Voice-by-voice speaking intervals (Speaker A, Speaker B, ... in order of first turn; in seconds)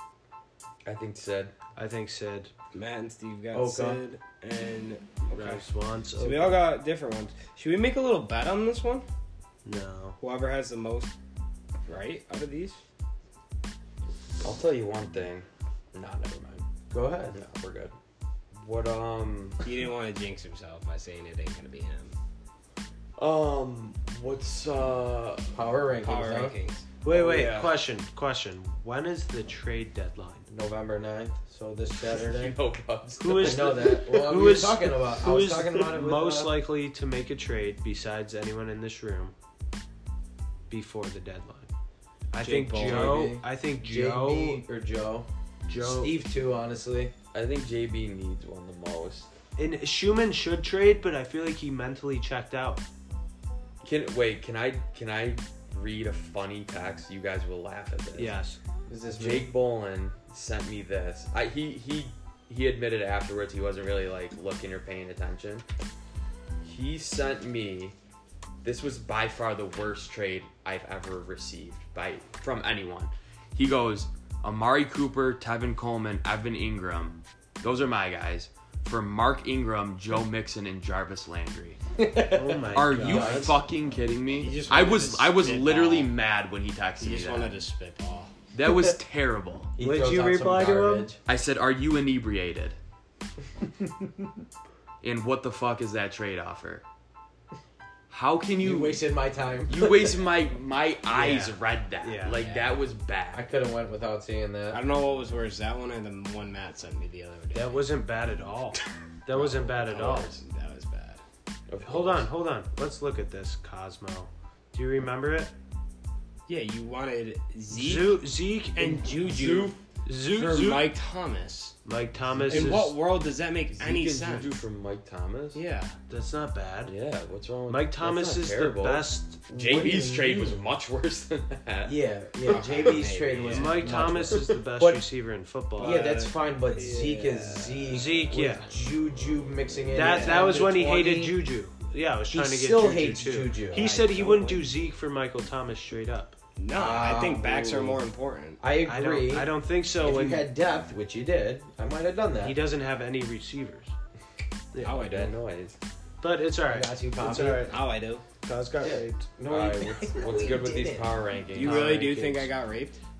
Speaker A: 0.8-1.5, 14.4-16.6, 17.3-17.9, 18.5-19.6, 23.2-25.5, 31.9-34.0, 47.3-49.3, 53.8-58.4, 59.1-65.6, 66.6-67.9, 68.6-81.8, 82.7-87.6, 88.5-89.7, 91.2-92.8, 95.0-96.8, 98.1-99.0, 99.7-103.5, 109.3-110.4, 111.7-112.3, 119.2-119.8, 123.7-125.6, 126.9-132.0, 154.9-155.8, 159.5-162.1
Speaker B: 1.8-2.5, 5.3-6.6, 9.6-10.2, 27.0-30.5, 33.2-39.3, 40.7-41.7, 42.3-44.6, 45.7-46.1, 49.6-52.8, 58.1-58.6, 82.3-83.5, 89.8-91.1, 101.1-102.4, 107.5-110.3, 111.8-115.5, 117.7-119.0, 120.0-120.9, 121.8-123.0, 126.1-126.9, 127.7-129.4, 133.5-136.2, 137.9-138.7, 139.9-146.4, 148.9-150.5, 152.4-153.9, 154.7-155.0, 156.2-157.8, 158.4-159.2, 161.6-162.5
Speaker C: 2.7-5.6, 6.2-9.1, 10.2-11.1, 11.9-12.8, 19.6-22.1, 26.0-27.7, 42.4-43.3, 83.1-83.5, 84.3-86.1, 87.0-88.3, 102.3-102.8, 104.7-107.8, 110.0-111.2, 116.5-121.8, 122.5-124.6, 125.5-126.0, 132.4-134.1, 135.8-138.4, 139.9-140.5, 143.7-144.7, 146.6-148.6, 154.8-155.4, 157.4-158.2, 161.5-163.0
Speaker D: 3.5-4.0, 16.9-17.4, 25.5-26.5, 30.5-32.5, 33.4-36.5, 42.8-45.3, 45.8-47.1, 58.9-59.5, 82.0-83.5, 89.8-91.2, 93.8-94.1, 98.6-100.2, 103.3-104.8, 129.5-130.6, 131.8-135.0, 135.8-141.4, 142.3-144.1, 146.7-148.0, 148.6-152.6, 156.7-157.7, 158.8-161.2